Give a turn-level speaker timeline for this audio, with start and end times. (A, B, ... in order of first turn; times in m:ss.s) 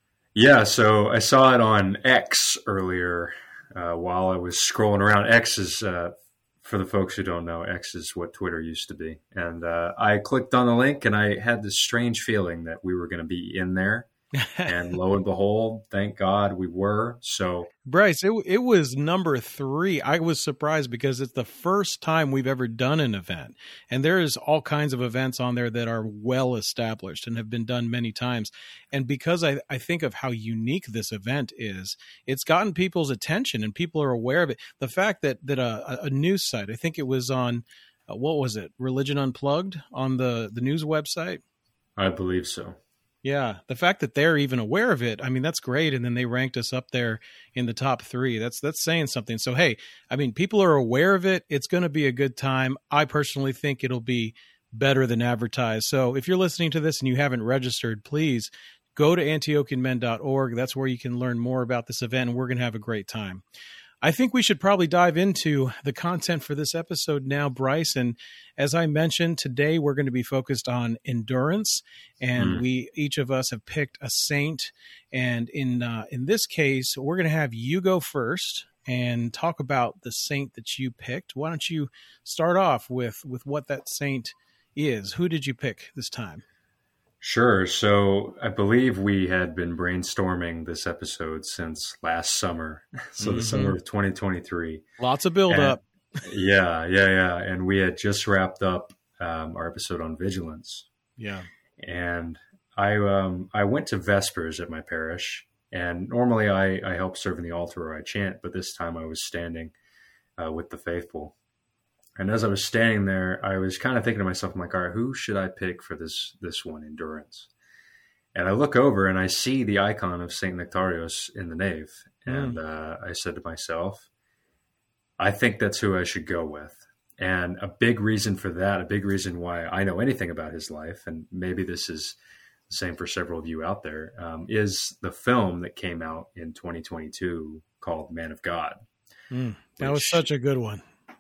0:00.4-0:14.1 A
0:14.4-0:14.7 B
0:14.6-0:17.7 A
0:17.9-0:41.4 B
0:42.0-0:42.8 A
0:43.2-1:03.4 B
1:04.0-1:26.4 B
1:12.4-1:12.6 A
1:27.2-1:34.8 A
1:33.2-1:33.8 B
1:35.0-1:35.8 B
1:35.5-1:40.9 A
1:41.2-1:41.5 B
1:41.8-1:49.7 A
1:50.4-1:51.3 A
1:52.2-1:57.5 A
1:58.4-2:04.1 A
2:02.3-2:02.6 B
2:05.2-2:12.2 A
2:12.7-2:18.8 A
2:19.3-2:20.8 B
2:19.8-2:20.3 A